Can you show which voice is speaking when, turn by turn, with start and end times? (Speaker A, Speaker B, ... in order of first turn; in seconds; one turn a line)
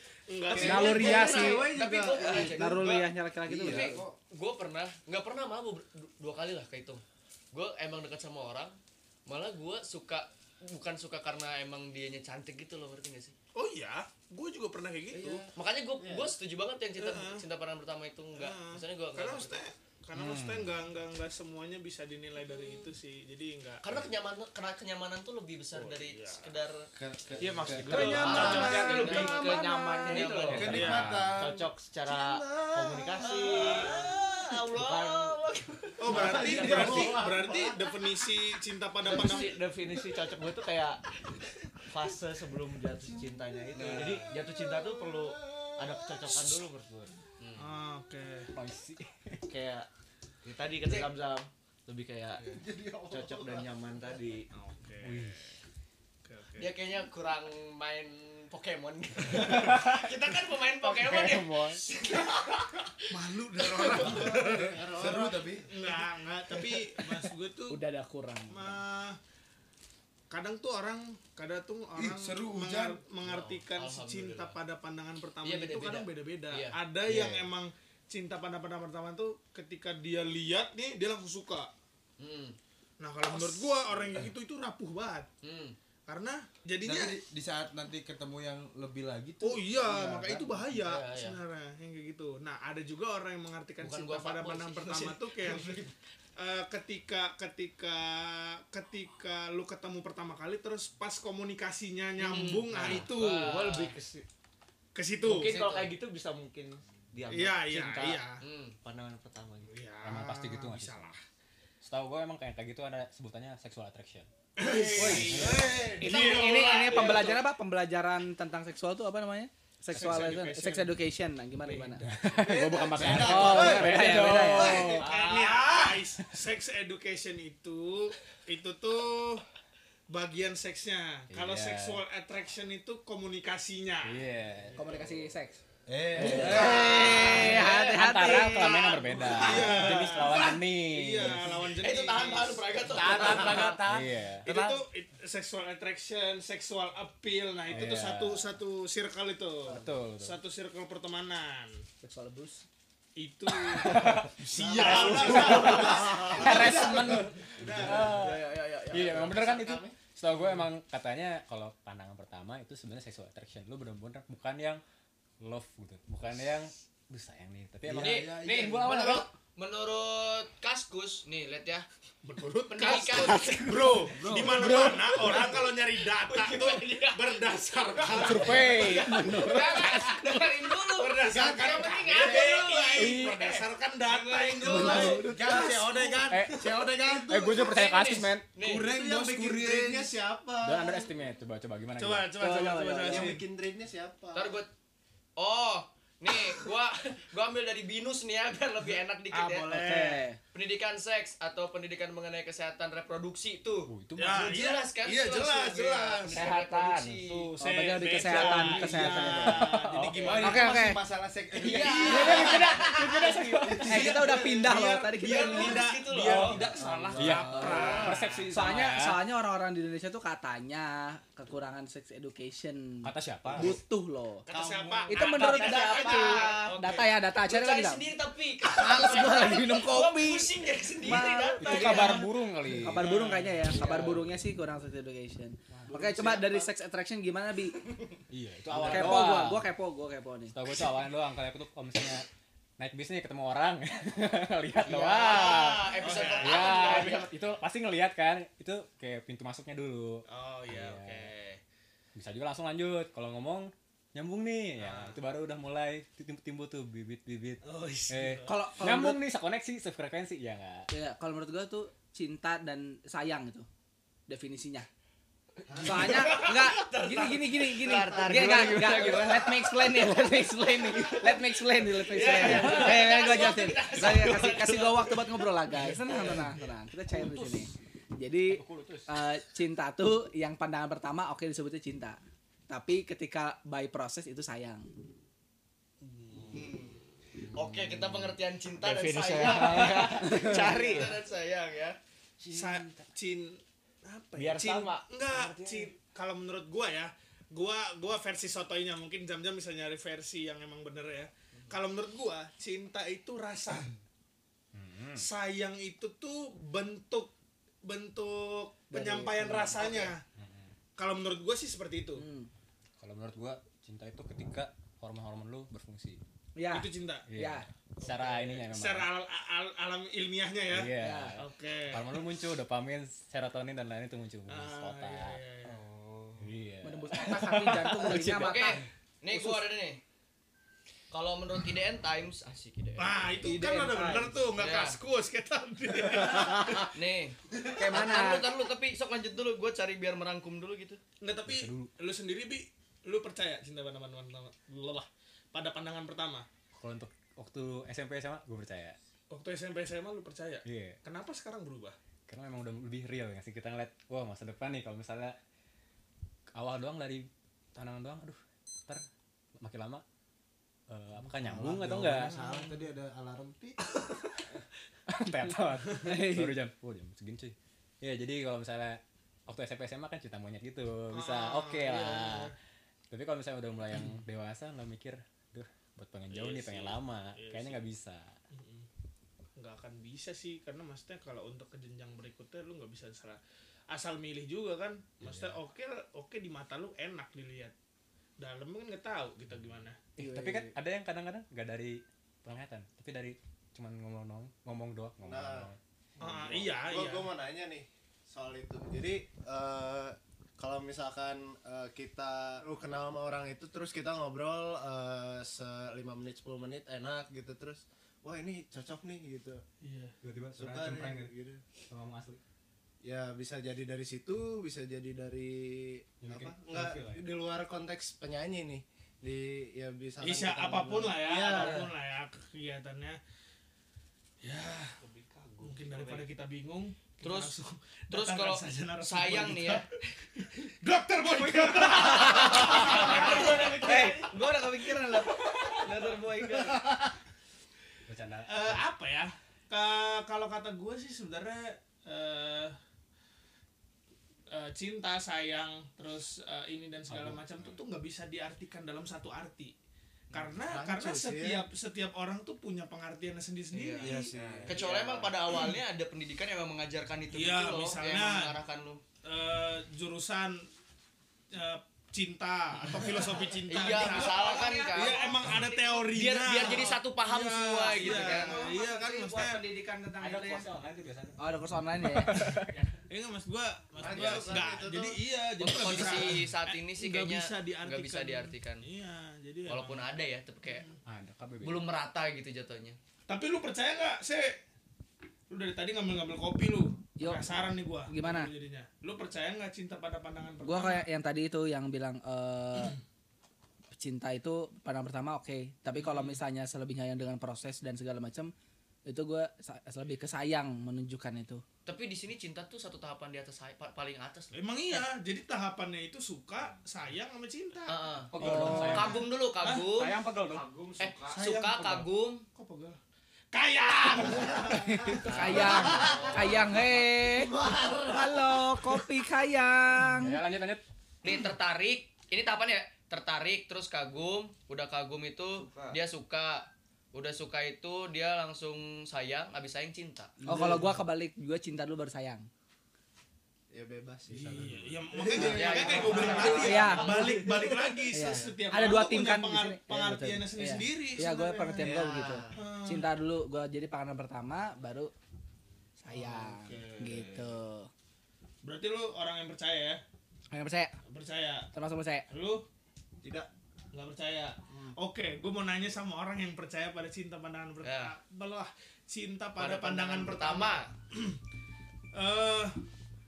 Speaker A: 0.3-1.2
Speaker B: 0.5-2.8
Speaker C: 0.5-4.0
Speaker D: 0.5-13.3
Speaker E: 3.5-4.2
Speaker A: 13.6-15.5
Speaker B: 15.2-15.4
Speaker D: 15.3-19.6
Speaker B: 16.0-16.3
Speaker A: 17.0-17.4
Speaker A: 18.4-23.9
Speaker F: 20.1-20.7
Speaker D: 23.8-26.9
Speaker A: 25.7-26.5
Speaker E: 26.9-33.2
Speaker G: 27.4-33.9
Speaker F: 27.6-28.5
Speaker D: 27.9-30.7
Speaker A: 27.9-29.3
Speaker B: 28.2-29.4
Speaker A: 30.6-31.1
Speaker F: 30.6-31.4
Speaker B: 33.2-33.8
Speaker A: 33.2-34.1
Speaker D: 33.2-37.3
Speaker G: 34.7-35.4
Speaker A: 36.0-39.6
Speaker B: 36.1-37.5
Speaker G: 36.1-37.6
Speaker E: 36.6-37.1
Speaker G: 39.0-41.0
Speaker G: 41.9-47.1
Speaker E: 43.1-46.5
Speaker D: 43.7-44.4
Speaker D: 47.4-47.7
Speaker A: 47.6-48.5
Speaker F: 48.5-49.4
Speaker G: 49.5-49.9
Speaker G: 50.4-52.4
Speaker D: 50.8-51.2
Speaker E: 52.4-53.8
Speaker G: 53.1-54.5
Speaker A: 54.5-55.5
Speaker F: 55.0-55.4
Speaker A: 56.2-56.7
Speaker D: 56.6-62.9
Speaker F: 59.4-60.0
Speaker F: 60.9-61.8
Speaker A: 63.1-64.6
Speaker D: 63.6-64.6
Speaker B: 63.9-65.5
Speaker E: 64.0-65.7
Speaker A: 65.6-67.8
Speaker C: 67.7-68.8
Speaker A: 68.5-69.2
Speaker A: 70.3-81.7
Speaker E: 72.0-73.0
Speaker D: 73.2-74.6
Speaker D: 75.4-76.8
Speaker F: 77.1-77.5
Speaker D: 82.2-82.6
Speaker A: 83.0-85.3
Speaker D: 83.3-84.2
Speaker D: 85.4-85.8
Speaker A: 86.1-87.2
Speaker E: 86.8-90.7
Speaker A: 89.4-95.8
Speaker D: 90.8-91.4
Speaker D: 93.8-96.0
Speaker A: 96.4-103.6
Speaker D: 102.2-104.0
Speaker G: 102.8-104.2
Speaker A: 105.0-105.7
Speaker G: 105.2-108.2
Speaker A: 107.3-108.4
Speaker D: 108.4-108.8
Speaker G: 108.8-109.7
Speaker A: 109.7-111.2
Speaker F: 110.0-111.1
Speaker F: 111.8-114.3
Speaker A: 114.6-117.4
Speaker C: 114.9-122.0
Speaker F: 115.0-115.6
Speaker E: 115.0-116.2
Speaker B: 115.3-115.9
Speaker F: 119.9-120.5
Speaker A: 120.0-120.9
Speaker A: 121.6-122.0
Speaker F: 122.0-125.1
Speaker B: 122.3-124.5
Speaker E: 122.4-124.0
Speaker C: 123.2-124.9
Speaker A: 124.5-129.4
Speaker D: 124.9-126.0
Speaker A: 130.1-134.3
Speaker F: 131.3-132.0
Speaker F: 134.0-135.0
Speaker C: 134.8-135.6
Speaker E: 135.9-137.1
Speaker C: 136.2-139.2
Speaker D: 136.3-140.1
Speaker F: 137.3-141.7
Speaker A: 139.2-143.7
Speaker D: 141.8-144.0
Speaker F: 143.0-144.5
Speaker B: 143.1-143.5
Speaker C: 143.4-143.7
Speaker A: 144.4-151.8
Speaker F: 147.7-148.5
Speaker F: 149.7-150.4
Speaker C: 152.0-152.7
Speaker A: 153.2-158.2
Speaker F: 153.6-164.8
Speaker B: 154.6-159.9
Speaker E: 154.6-155.8
Speaker D: 158.1-159.2
Speaker F: 165.4-169.3
Speaker E: 167.8-169.2
Speaker D: 168.0-171.9
Speaker A: 172.2-178.9
Speaker D: 172.7-173.6
Speaker F: 173.3-173.7
Speaker F: 174.2-175.3
Speaker D: 175.2-185.6
Speaker F: 178.2-180.2
Speaker A: 180.8-185.8
Speaker E: 181.3-182.4
Speaker F: 183.0-183.4
Speaker C: 184.7-185.3
Speaker E: 185.0-187.6
Speaker B: 185.1-187.5
Speaker F: 186.3-186.7
Speaker F: 187.2-188.6
Speaker D: 187.6-188.9
Speaker E: 188.6-190.2
Speaker B: 188.6-191.1
Speaker F: 190.6-192.3
Speaker A: 192.0-193.4
Speaker C: 192.4-193.4
Speaker B: 193.1-194.6
Speaker D: 194.3-194.7
Speaker D: 195.4-199.8
Speaker A: 199.3-200.2
Speaker C: 199.7-200.4
Speaker D: 200.5-207.5
Speaker F: 203.9-204.4
Speaker A: 204.2-206.3
Speaker B: 206.2-206.5
Speaker F: 206.3-207.2
Speaker A: 207.2-210.7
Speaker C: 207.6-209.7
Speaker E: 208.4-209.5
Speaker F: 208.4-210.5
Speaker E: 210.2-212.9
Speaker C: 210.4-211.0
Speaker D: 211.6-212.9
Speaker C: 211.7-215.8
Speaker A: 211.8-212.1
Speaker F: 211.9-213.9
Speaker E: 213.5-214.5
Speaker A: 213.8-218.5
Speaker D: 215.2-216.7
Speaker F: 216.2-219.2
Speaker E: 216.7-217.9
Speaker C: 217.5-224.5
Speaker D: 217.7-218.1
Speaker F: 223.0-223.8
Speaker D: 224.5-232.3
Speaker A: 224.5-227.0
Speaker C: 225.1-228.1
Speaker C: 228.7-237.8
Speaker F: 231.6-233.1
Speaker A: 231.7-232.3
Speaker A: 233.0-234.2
Speaker D: 233.7-234.2
Speaker F: 235.8-236.1
Speaker B: 236.2-236.6
Speaker F: 238.3-239.7
Speaker C: 238.7-240.6
Speaker F: 240.5-242.3
Speaker F: 242.8-251.3
Speaker D: 244.8-247.3
Speaker C: 244.9-245.3
Speaker A: 246.0-247.1
Speaker A: 250.3-251.6
Speaker F: 252.2-260.9
Speaker A: 254.8-255.2
Speaker A: 257.6-258.7
Speaker C: 258.4-259.2
Speaker C: 260.9-263.7
Speaker C: 264.3-264.9
Speaker E: 265.7-266.2
Speaker C: 265.8-284.9
Speaker D: 266.0-269.8
Speaker B: 267.9-269.0
Speaker D: 272.1-275.3
Speaker F: 277.1-277.4
Speaker F: 278.5-279.1
Speaker D: 286.5-287.0
Speaker D: 287.5-292.0
Speaker G: 288.8-291.1
Speaker C: 289.9-291.1
Speaker A: 290.6-291.1
Speaker G: 292.4-293.0
Speaker A: 292.5-303.9
Speaker G: 294.4-295.9
Speaker F: 304.7-305.3
Speaker A: 305.2-307.3
Speaker A: 307.8-310.2
Speaker C: 308.9-310.1
Speaker F: 310.4-310.7
Speaker A: 311.0-312.2
Speaker C: 312.2-312.5
Speaker F: 313.0-316.2
Speaker C: 316.6-317.7
Speaker A: 316.7-317.3
Speaker F: 317.3-319.1
Speaker A: 318.0-322.2
Speaker F: 320.7-325.4
Speaker C: 321.0-321.4
Speaker A: 324.5-325.8
Speaker E: 325.8-326.4
Speaker F: 326.4-328.7
Speaker C: 326.8-329.7
Speaker D: 328.3-330.0
Speaker D: 331.1-333.5
Speaker A: 333.0-336.9
Speaker C: 333.4-334.4
Speaker D: 334.6-335.0
Speaker C: 336.1-336.9
Speaker D: 336.7-341.0
Speaker C: 337.7-338.5
Speaker A: 341.2-346.5
Speaker F: 341.5-341.9
Speaker F: 346.8-349.0
Speaker A: 349.3-352.0
Speaker F: 350.6-351.0
Speaker F: 352.3-355.4
Speaker F: 356.6-359.0
Speaker F: 359.6-360.0
Speaker F: 360.9-362.4
Speaker E: 361.2-363.8
Speaker A: 362.2-362.8
Speaker F: 365.1-372.5
Speaker C: 366.0-366.6
Speaker A: 371.1-372.5
Speaker F: 373.1-378.3
Speaker A: 376.3-377.8
Speaker A: 378.5-378.9
Speaker A: 379.6-387.7
Speaker F: 385.2-385.6
Speaker A: 388.4-390.0
Speaker C: 390.2-390.7
Speaker F: 390.2-395.8
Speaker B: 395.2-409.6
Speaker A: 396.2-397.3
Speaker A: 409.8-410.1
Speaker F: 410.2-411.3
Speaker B: 410.5-411.6
Speaker F: 411.9-412.4
Speaker B: 413.0-421.9
Speaker F: 416.2-417.3
Speaker A: 420.2-423.2
Speaker A: 424.4-425.0
Speaker G: 425.0-426.2
Speaker A: 425.6-429.9
Speaker D: 427.2-427.6
Speaker D: 428.1-429.9
Speaker A: 430.4-434.3
Speaker D: 431.8-434.2
Speaker C: 431.9-437.0
Speaker F: 438.1-438.8
Speaker A: 438.5-442.8
Speaker A: 444.5-449.7
Speaker F: 447.1-447.8
Speaker A: 450.3-454.4
Speaker B: 450.6-451.7
Speaker D: 453.7-459.0
Speaker B: 454.0-455.3
Speaker A: 457.3-458.6
Speaker A: 459.2-460.7
Speaker A: 461.5-469.6
Speaker D: 463.7-465.4
Speaker C: 463.7-466.1
Speaker D: 466.1-468.7
Speaker C: 467.9-470.7
Speaker F: 470.2-472.9
Speaker C: 471.4-472.6
Speaker A: 472.4-480.1
Speaker B: 474.0-475.2
Speaker D: 475.6-478.9
Speaker D: 479.7-480.9
Speaker A: 480.7-480.9
Speaker F: 481.1-481.9
Speaker D: 481.6-483.0
Speaker A: 483.3-484.6
Speaker A: 485.5-491.1
Speaker C: 487.2-487.4
Speaker C: 488.1-488.5
Speaker C: 490.6-493.0
Speaker C: 493.9-498.5
Speaker A: 495.9-496.4
Speaker C: 499.1-501.6
Speaker D: 501.9-504.6
Speaker A: 504.5-509.9
Speaker D: 507.9-510.2
Speaker F: 508.3-509.2
Speaker C: 508.4-509.1
Speaker F: 509.9-511.0
Speaker E: 510.6-511.1
Speaker D: 511.0-512.5
Speaker A: 511.2-513.0
Speaker A: 513.5-516.4
Speaker C: 514.8-517.5
Speaker D: 515.4-516.3
Speaker B: 516.0-516.3
Speaker B: 517.4-518.4
Speaker C: 518.1-520.4
Speaker F: 520.2-520.8
Speaker D: 521.2-530.4
Speaker E: 525.6-526.0
Speaker C: 530.5-532.5
Speaker B: 533.7-538.4
Speaker A: 534.3-543.1
Speaker E: 535.2-536.1
Speaker D: 535.3-537.5
Speaker C: 536.5-537.5
Speaker C: 538.1-545.1
Speaker B: 541.8-542.6
Speaker C: 546.0-547.9
Speaker A: 546.1-547.0
Speaker B: 546.7-547.3
Speaker A: 548.6-550.0
Speaker C: 550.5-551.0
Speaker A: 551.1-551.7
Speaker C: 551.7-552.3
Speaker A: 552.3-552.7
Speaker B: 553.2-553.5
Speaker A: 553.9-561.4
Speaker D: 557.8-558.1
Speaker D: 559.6-560.9
Speaker A: 562.1-562.8